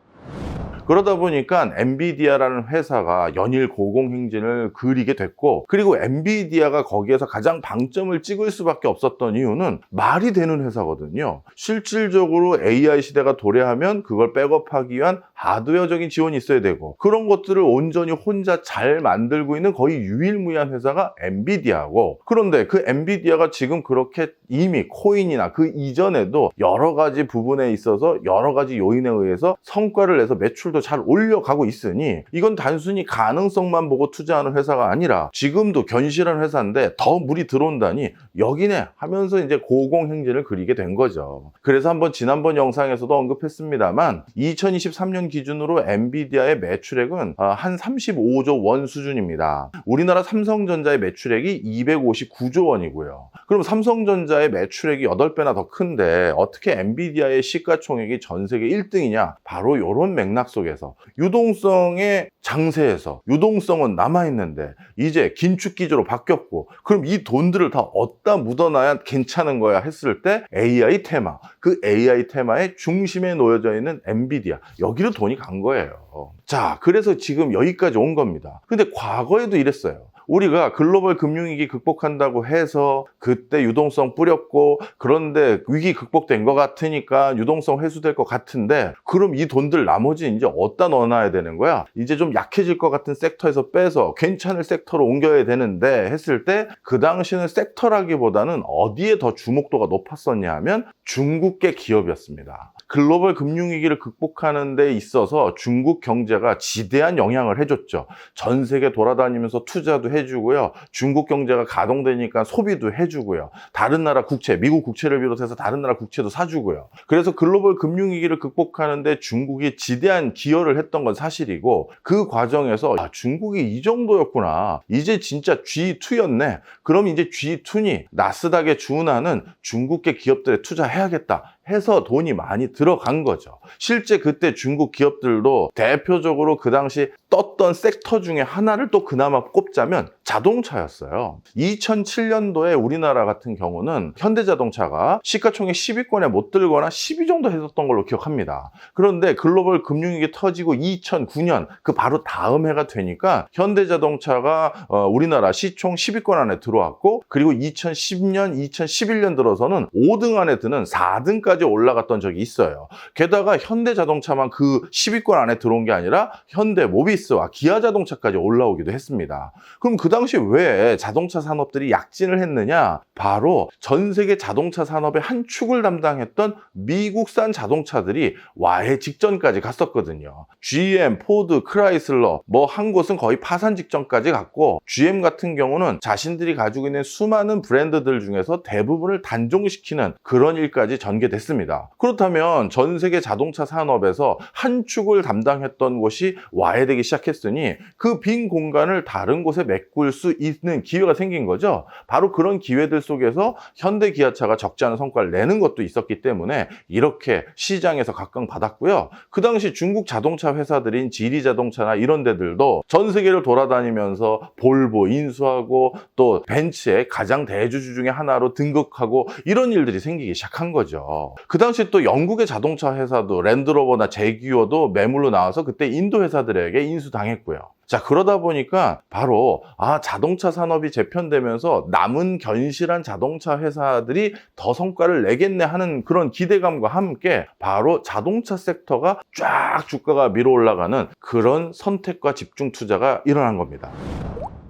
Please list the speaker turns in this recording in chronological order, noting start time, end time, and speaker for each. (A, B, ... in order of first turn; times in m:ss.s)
0:00.8-4:04.0 A